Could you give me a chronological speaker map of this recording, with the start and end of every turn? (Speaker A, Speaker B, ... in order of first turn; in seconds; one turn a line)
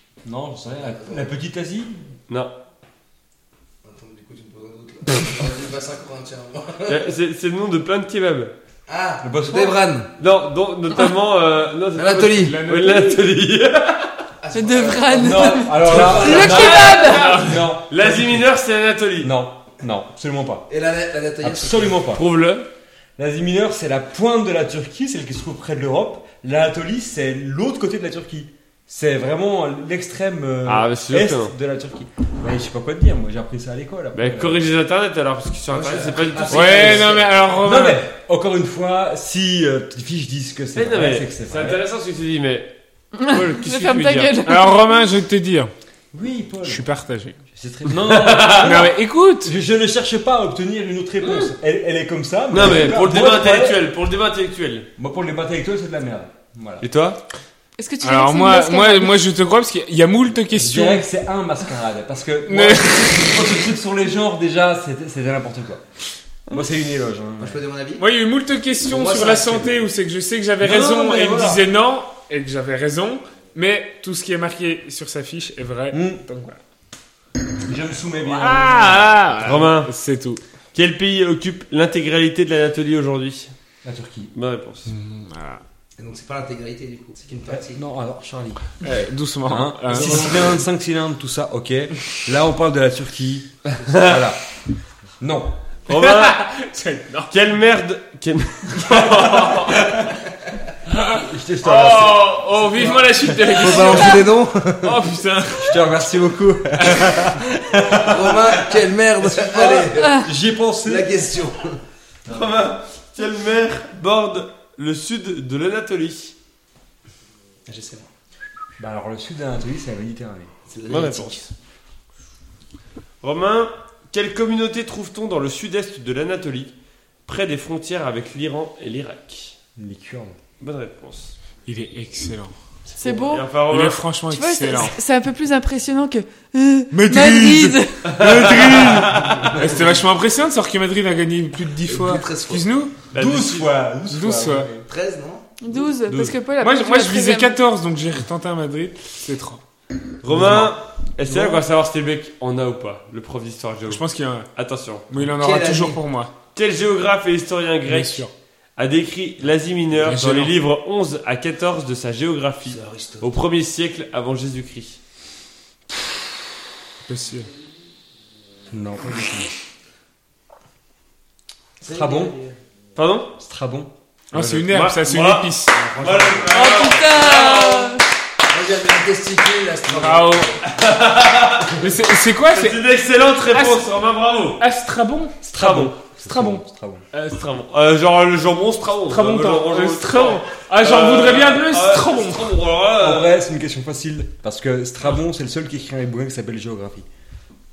Speaker A: 0.2-2.0
Speaker B: 0.8-1.3
Speaker B: 3.8-7.1
Speaker C: 6.8-8.5
Speaker B: 8.9-10.1
Speaker A: 9.2-9.8
Speaker C: 10.2-14.2
Speaker B: 11.9-12.6
Speaker D: 12.4-13.2
Speaker B: 14.4-16.8
Speaker E: 14.5-17.5
Speaker A: 15.1-18.5
Speaker C: 15.9-19.3
Speaker D: 16.0-17.7
Speaker A: 19.2-20.7
Speaker B: 20.7-22.0
Speaker A: 21.4-22.2
Speaker C: 22.1-22.7
Speaker A: 23.2-34.6
Speaker C: 30.6-31.5
Speaker C: 34.1-37.2
Speaker B: 35.7-37.4
Speaker D: 36.5-38.0
Speaker A: 36.6-41.8
Speaker C: 40.7-42.7
Speaker E: 43.1-45.0
Speaker C: 43.2-44.4
Speaker D: 44.4-45.7
Speaker A: 46.1-46.9
Speaker D: 46.6-47.4
Speaker A: 47.5-53.8
Speaker C: 47.9-48.8
Speaker D: 48.5-49.5
Speaker C: 52.5-54.9
Speaker A: 55.0-56.8
Speaker C: 56.8-57.2
Speaker E: 57.8-59.3
Speaker D: 58.0-61.0
Speaker A: 60.5-65.8
Speaker D: 62.4-63.5
Speaker A: 66.5-67.6
Speaker B: 67.4-68.0
Speaker D: 68.0-76.6
Speaker B: 68.8-69.8
Speaker A: 70.6-71.6
Speaker A: 75.9-76.2
Speaker A: 77.6-79.1
Speaker D: 78.2-80.4
Speaker C: 79.4-79.9
Speaker C: 80.7-83.5
Speaker A: 83.8-84.3
Speaker C: 84.3-84.9
Speaker D: 84.8-85.6
Speaker B: 86.0-87.8
Speaker A: 87.5-88.9
Speaker D: 88.8-90.6
Speaker A: 89.4-94.4
Speaker C: 93.8-94.2
Speaker A: 95.2-95.5
Speaker C: 95.9-96.4
Speaker D: 95.9-97.3
Speaker C: 97.3-99.9
Speaker D: 98.8-100.0
Speaker D: 100.9-105.9
Speaker A: 101.1-104.1
Speaker B: 103.5-105.0
Speaker A: 105.6-111.1
Speaker D: 106.8-107.4
Speaker B: 108.0-110.3
Speaker E: 110.0-110.3
Speaker B: 110.8-111.8
Speaker C: 112.3-116.3
Speaker B: 117.7-118.1
Speaker A: 118.8-120.5
Speaker B: 120.7-121.5
Speaker C: 120.9-121.5
Speaker C: 123.2-126.7
Speaker C: 127.2-129.5
Speaker A: 129.8-130.4
Speaker C: 130.6-131.3
Speaker D: 131.7-132.5
Speaker C: 132.9-134.0
Speaker E: 133.0-133.4
Speaker D: 133.7-135.0
Speaker E: 134.3-138.2
Speaker A: 136.9-139.8
Speaker D: 137.2-137.6
Speaker C: 138.0-139.4
Speaker D: 138.4-143.0
Speaker B: 139.0-139.9
Speaker B: 141.8-142.6
Speaker C: 143.1-143.7
Speaker A: 143.1-144.8
Speaker D: 144.0-144.7
Speaker B: 144.8-145.5
Speaker E: 145.6-147.6
Speaker A: 146.1-146.3
Speaker D: 146.6-149.6
Speaker C: 150.2-155.1
Speaker A: 150.3-150.7
Speaker A: 151.3-151.6
Speaker D: 153.9-154.5
Speaker D: 155.1-156.3
Speaker B: 155.4-156.0
Speaker C: 156.5-158.2
Speaker D: 157.8-158.3
Speaker C: 158.8-165.0
Speaker D: 160.0-160.5
Speaker B: 162.6-163.3
Speaker D: 167.0-167.5
Speaker A: 168.7-169.5
Speaker B: 171.8-172.6
Speaker A: 171.8-172.3
Speaker C: 172.9-173.3
Speaker A: 173.4-174.7
Speaker D: 174.3-175.9
Speaker C: 174.5-178.0
Speaker B: 175.7-176.6
Speaker E: 176.5-178.1
Speaker B: 178.5-180.6
Speaker D: 179.9-180.6
Speaker C: 180.7-181.8
Speaker D: 181.8-182.8
Speaker C: 182.5-184.6
Speaker D: 183.5-183.9
Speaker D: 184.6-187.4
Speaker C: 185.5-185.9
Speaker A: 185.5-187.0
Speaker C: 187.3-193.3
Speaker D: 189.1-192.6
Speaker A: 193.0-197.1